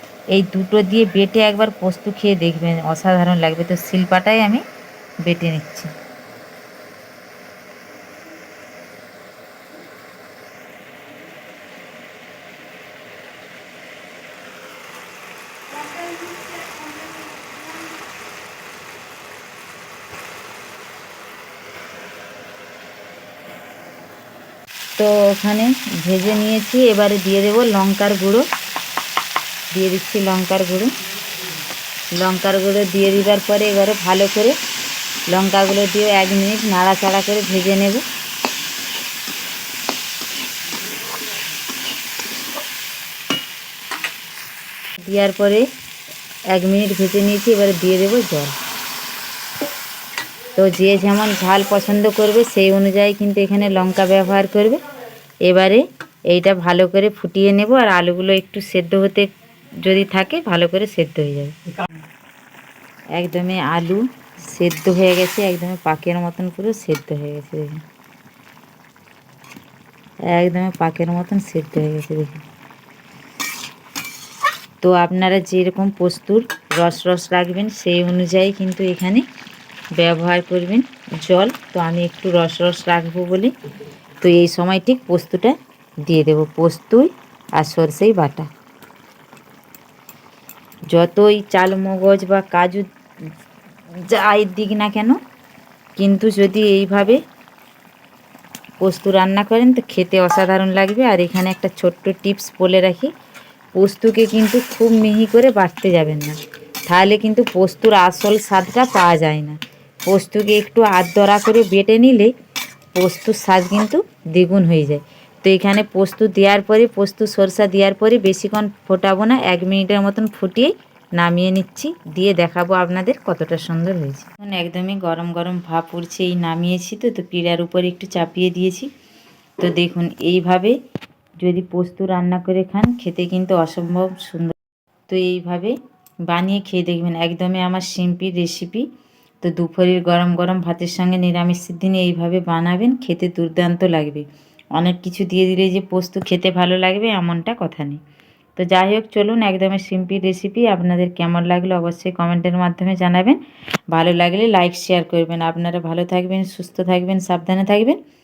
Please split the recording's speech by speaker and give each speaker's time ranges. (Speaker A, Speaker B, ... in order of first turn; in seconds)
Speaker A: 0.3-4.6, 5.2-5.9, 25.0-28.4, 29.7-30.9, 32.1-34.5, 35.3-38.0, 45.0-45.6, 46.5-48.5, 50.5-54.8, 55.4-59.3, 59.8-62.0, 63.1-67.8, 70.3-72.4, 74.8-79.2, 80.0-83.5, 84.2-88.5, 90.9-92.8, 94.0-95.2, 96.0-97.2, 98.8-103.1, 103.7-106.4, 106.9-112.3, 112.9-128.9, 129.6-130.8, 131.4-134.5, 135.1-135.8, 136.3-138.8, 139.4-148.0, 148.6-153.4, 153.9-158.0